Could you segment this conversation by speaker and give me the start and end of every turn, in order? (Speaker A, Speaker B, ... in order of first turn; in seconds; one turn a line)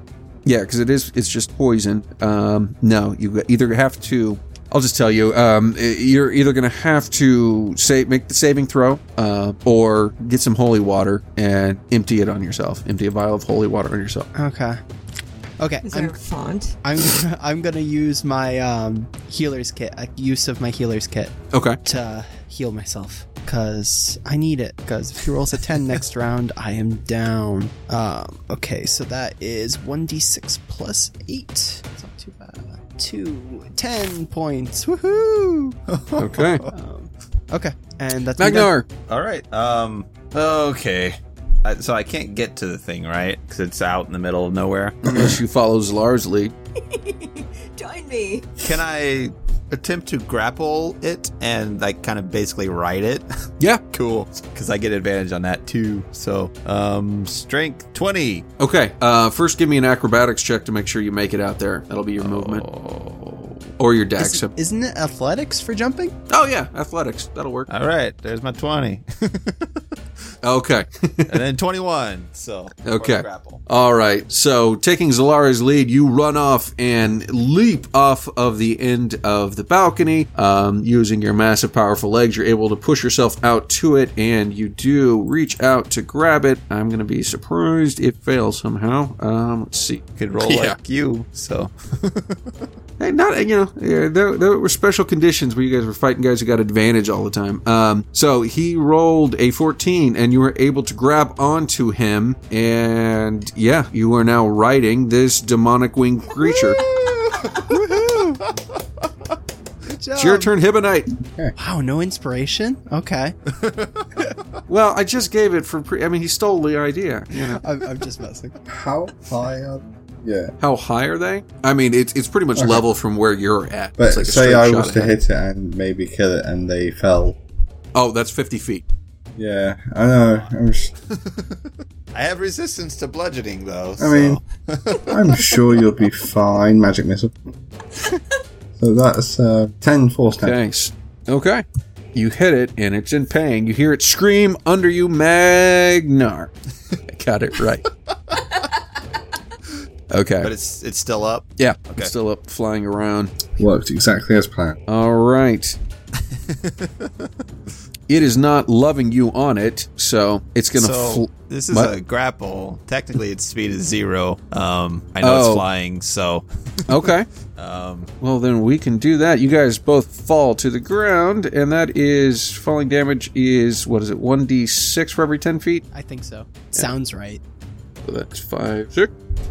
Speaker A: 0.5-14.3
Speaker B: 14.4-14.8
Speaker B: 15.6-16.2
Speaker C: 15.8-16.8
Speaker B: 16.8-35.8
Speaker A: 21.5-21.8
Speaker D: 35.9-36.7
Speaker A: 36.2-36.6
Speaker B: 36.7-38.7
Speaker A: 38.4-38.9
Speaker D: 39.1-45.3
Speaker A: 45.0-46.5
Speaker C: 46.8-48.5
Speaker D: 48.6-53.3
Speaker D: 53.9-58.5
Speaker A: 58.6-62.6
Speaker D: 62.2-63.6
Speaker A: 63.8-64.5
Speaker B: 64.2-66.2
Speaker A: 66.3-67.7
Speaker D: 67.7-69.8
Speaker A: 70.4-71.4
Speaker D: 71.3-73.6
Speaker A: 72.8-90.8
Speaker D: 90.2-92.5
Speaker A: 93.0-106.8
Speaker B: 106.5-106.9
Speaker D: 106.8-108.5
Speaker B: 107.4-108.4
Speaker B: 109.8-110.5
Speaker A: 110.2-111.1
Speaker B: 111.6-113.4
Speaker D: 113.6-114.1
Speaker A: 114.7-117.6
Speaker B: 117.5-118.6
Speaker E: 118.7-120.5
Speaker A: 120.6-125.2
Speaker E: 122.6-122.8
Speaker E: 124.0-127.4
Speaker A: 128.0-128.8
Speaker E: 129.3-130.9
Speaker D: 131.1-135.2
Speaker E: 134.0-134.4
Speaker E: 135.0-137.3
Speaker E: 138.8-140.6
Speaker A: 140.4-146.5
Speaker A: 147.1-147.9
Speaker A: 150.1-150.5
Speaker D: 150.4-152.1
Speaker A: 151.6-153.3
Speaker E: 153.6-154.8
Speaker A: 154.9-155.8
Speaker D: 156.2-157.1
Speaker A: 158.1-161.9
Speaker D: 160.8-168.1
Speaker A: 165.2-165.7
Speaker A: 166.9-167.3
Speaker A: 168.2-175.8
Speaker B: 175.9-177.4
Speaker A: 178.0-179.1